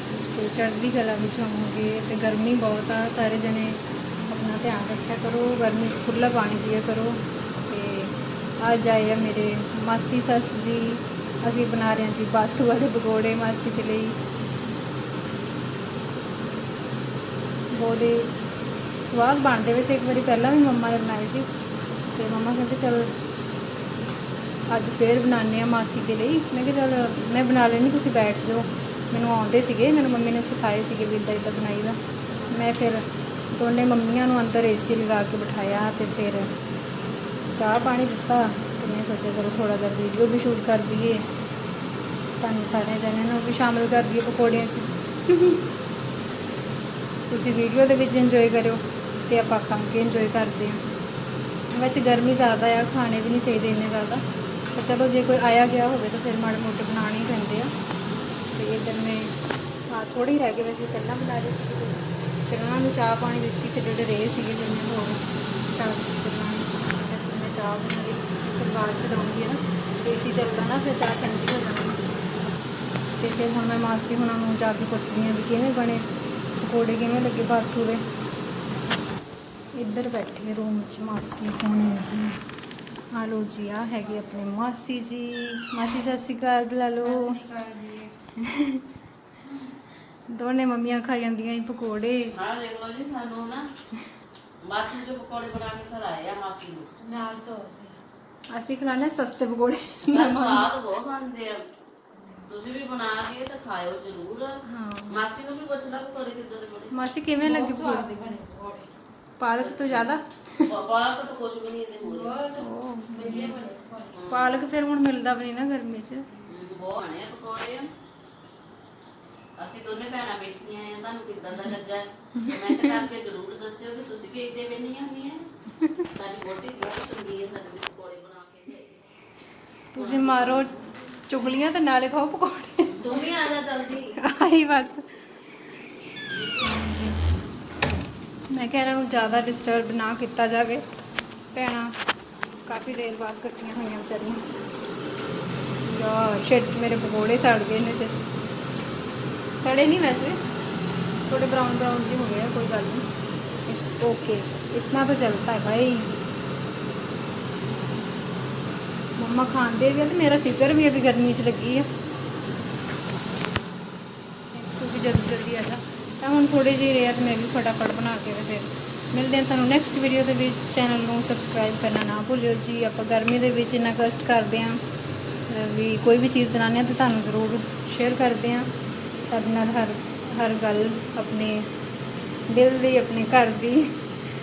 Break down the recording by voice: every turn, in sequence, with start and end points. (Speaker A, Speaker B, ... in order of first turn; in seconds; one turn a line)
Speaker A: 0.3-14.2
Speaker A: 17.7-18.3
Speaker A: 19.0-21.5
Speaker A: 22.1-23.1
Speaker A: 24.7-32.0
Speaker A: 32.5-36.5
Speaker A: 37.5-41.2
Speaker A: 42.4-45.6
Speaker A: 47.3-50.8
Speaker A: 51.7-54.2
Speaker A: 54.7-57.7
Speaker A: 58.5-59.3
Speaker A: 59.9-72.0
Speaker A: 73.2-76.0
Speaker A: 76.6-78.0
Speaker A: 79.8-82.4
Speaker A: 83.1-87.4
Speaker B: 87.0-88.1
Speaker A: 88.4-88.8
Speaker A: 90.3-92.3
Speaker C: 92.3-93.7
Speaker C: 94.6-96.9
Speaker B: 97.0-98.0
Speaker A: 98.5-100.7
Speaker C: 100.0-101.6
Speaker C: 102.5-106.9
Speaker A: 104.7-105.2
Speaker A: 106.9-108.1
Speaker B: 107.4-108.9
Speaker A: 109.4-110.7
Speaker C: 109.5-112.4
Speaker B: 112.0-114.2
Speaker A: 112.5-113.6
Speaker C: 114.1-114.6
Speaker A: 114.3-116.2
Speaker C: 116.5-117.9
Speaker C: 119.6-125.4
Speaker C: 126.1-129.0
Speaker A: 129.9-133.3
Speaker C: 129.9-130.8
Speaker C: 132.9-134.2
Speaker A: 134.0-135.1
Speaker A: 136.6-137.2
Speaker A: 138.5-140.8
Speaker A: 141.5-141.9
Speaker A: 142.7-144.4
Speaker A: 145.8-148.1
Speaker A: 149.6-150.4
Speaker A: 151.3-153.1
Speaker A: 153.7-156.1
Speaker A: 159.2-161.9
Speaker A: 164.5-174.8
Speaker A: 175.4-178.7
Speaker A: 179.3-181.7
Speaker A: 182.5-183.9